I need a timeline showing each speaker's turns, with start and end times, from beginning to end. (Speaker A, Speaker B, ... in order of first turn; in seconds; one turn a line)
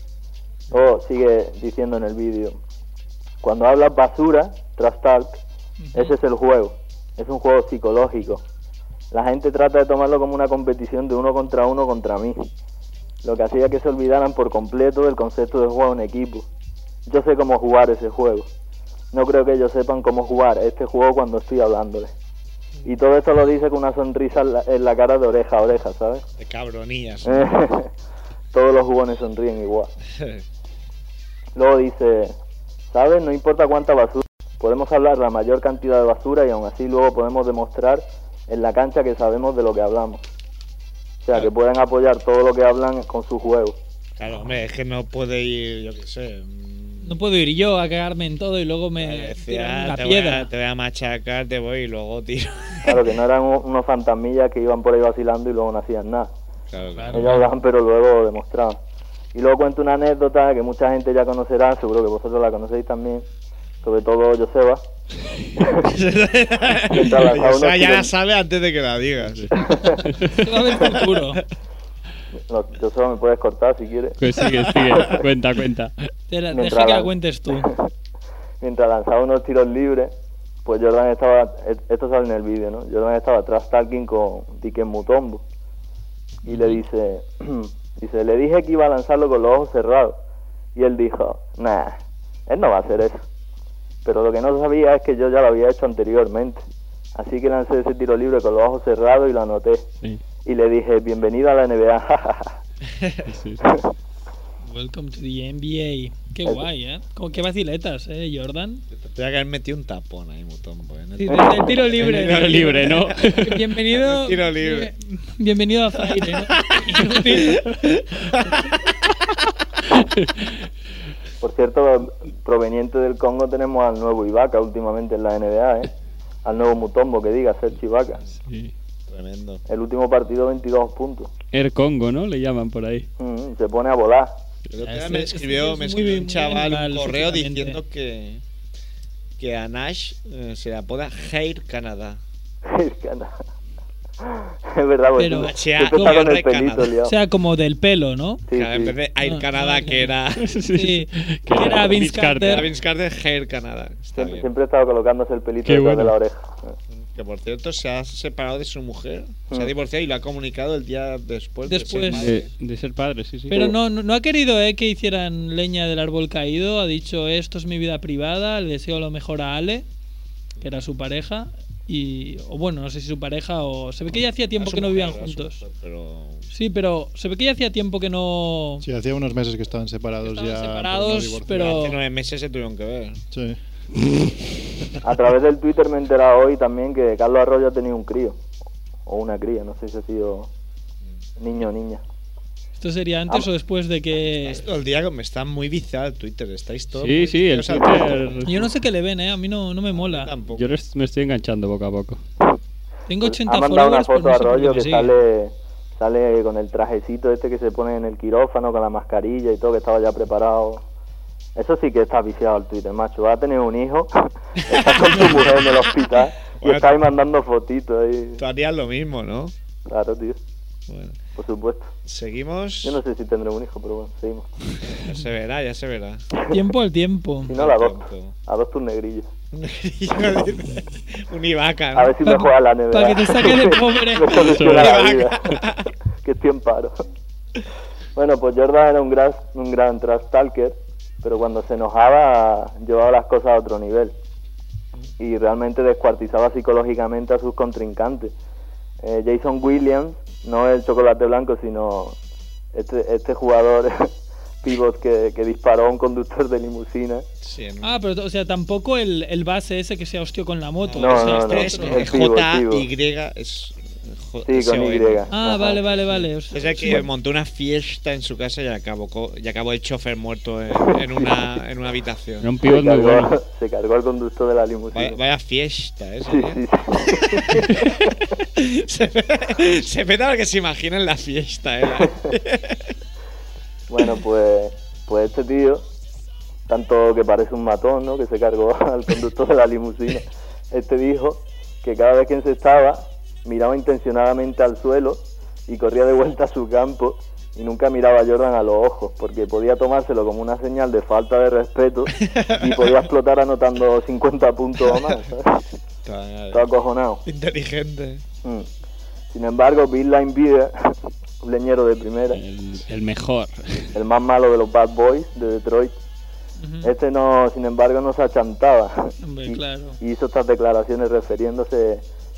Speaker A: 0.7-2.6
Speaker A: 3.4-5.4
Speaker B: 5.8-6.1
Speaker A: 5.9-8.4
Speaker A: 9.1-12.5
Speaker A: 13.2-16.5
Speaker A: 17.1-18.5
Speaker A: 19.1-22.1
Speaker A: 22.8-26.2
Speaker C: 26.4-27.5
Speaker A: 27.2-27.9
Speaker A: 28.5-29.9
Speaker C: 30.2-30.4
Speaker A: 31.5-32.4
Speaker A: 32.9-40.2
Speaker A: 41.2-43.8
Speaker C: 44.1-47.2
Speaker B: 47.0-50.5
Speaker C: 49.0-53.0
Speaker A: 52.8-56.3
Speaker C: 56.7-57.3
Speaker B: 57.0-57.4
Speaker A: 57.1-58.8
Speaker A: 59.3-63.2
Speaker A: 63.8-64.8
Speaker A: 65.6-65.8
Speaker C: 65.8-69.7
Speaker A: 66.9-68.1
Speaker A: 69.5-70.0
Speaker B: 70.3-71.4
Speaker A: 72.5-74.2
Speaker D: 74.2-75.9
Speaker C: 74.7-75.0
Speaker B: 76.3-77.7
Speaker A: 76.5-77.9
Speaker A: 78.6-80.1
Speaker A: 80.6-85.4
Speaker A: 86.4-90.2
Speaker B: 86.5-86.8
Speaker A: 90.7-93.2
Speaker A: 94.0-96.6
Speaker A: 97.2-99.9
Speaker A: 100.4-102.6
Speaker C: 102.9-103.2
Speaker D: 103.3-103.6
Speaker B: 104.6-108.8
Speaker C: 108.9-114.9
Speaker B: 111.2-117.7
Speaker D: 112.0-113.5
Speaker C: 116.0-118.7
Speaker A: 121.4-125.9
Speaker A: 126.4-128.2
Speaker D: 128.4-128.7
Speaker C: 129.1-129.6
Speaker A: 129.7-131.3
Speaker D: 131.5-133.1
Speaker A: 133.2-134.4
Speaker C: 134.7-138.4
Speaker B: 134.8-137.8
Speaker C: 139.4-142.2
Speaker A: 142.6-143.4
Speaker A: 144.2-147.1
Speaker B: 145.2-146.3
Speaker C: 145.4-146.9
Speaker B: 147.0-148.4
Speaker A: 148.5-148.9
Speaker C: 148.5-150.5
Speaker B: 149.2-150.1
Speaker D: 150.4-152.7
Speaker B: 150.7-152.7
Speaker C: 152.4-154.5
Speaker A: 154.1-156.7
Speaker D: 155.6-156.1
Speaker C: 156.9-162.5
Speaker B: 161.7-162.3
Speaker D: 162.1-163.6
Speaker B: 163.5-169.8
Speaker B: 170.6-175.6
Speaker C: 174.6-176.5
Speaker B: 176.5-178.8
Speaker E: 178.8-181.9
Speaker B: 180.2-182.0
Speaker C: 181.5-183.2
Speaker E: 183.3-183.6
Speaker A: 185.0-188.4
Speaker A: 189.1-190.5
Speaker A: 191.4-192.0
Speaker B: 192.8-194.6
Speaker C: 194.4-198.5
Speaker D: 197.0-198.5
Speaker B: 198.4-200.3
Speaker C: 199.9-200.7
Speaker D: 200.5-202.2
Speaker B: 203.1-205.1
Speaker A: 203.2-210.8
Speaker A: 211.6-218.4
Speaker C: 214.7-215.5
Speaker C: 216.6-217.0
Speaker C: 218.4-219.5
Speaker A: 219.9-220.4
Speaker C: 220.9-221.2
Speaker A: 221.3-221.9
Speaker C: 222.0-223.0
Speaker A: 222.8-224.5
Speaker C: 225.0-226.2
Speaker B: 226.5-227.5
Speaker A: 227.5-229.3
Speaker C: 227.5-228.3
Speaker C: 229.5-232.2
Speaker A: 231.9-235.5
Speaker B: 232.2-234.5
Speaker C: 234.3-235.9
Speaker D: 234.5-235.0
Speaker A: 236.2-237.0
Speaker A: 238.2-244.1
Speaker A: 245.2-248.3
Speaker A: 249.0-252.2
Speaker A: 252.7-254.1
Speaker A: 254.6-257.3
Speaker C: 257.4-258.0
Speaker B: 257.8-262.1
Speaker C: 260.8-265.3
Speaker A: 260.9-262.9
Speaker A: 264.4-265.8
Speaker B: 265.3-267.0
Speaker C: 266.1-272.5
Speaker A: 270.8-271.4
Speaker D: 272.4-273.3
Speaker A: 272.6-275.2
Speaker C: 274.9-276.6
Speaker A: 276.2-277.9
Speaker C: 277.1-282.9
Speaker A: 283.9-285.9
Speaker A: 286.7-305.6
Speaker C: 302.2-302.9
Speaker C: 306.0-306.7
Speaker A: 306.5-307.2
Speaker C: 307.2-308.2
Speaker A: 309.3-312.4
Speaker D: 312.3-313.9
Speaker A: 313.9-315.9
Speaker B: 316.6-316.9
Speaker A: 316.8-322.0
Speaker B: 319.2-320.0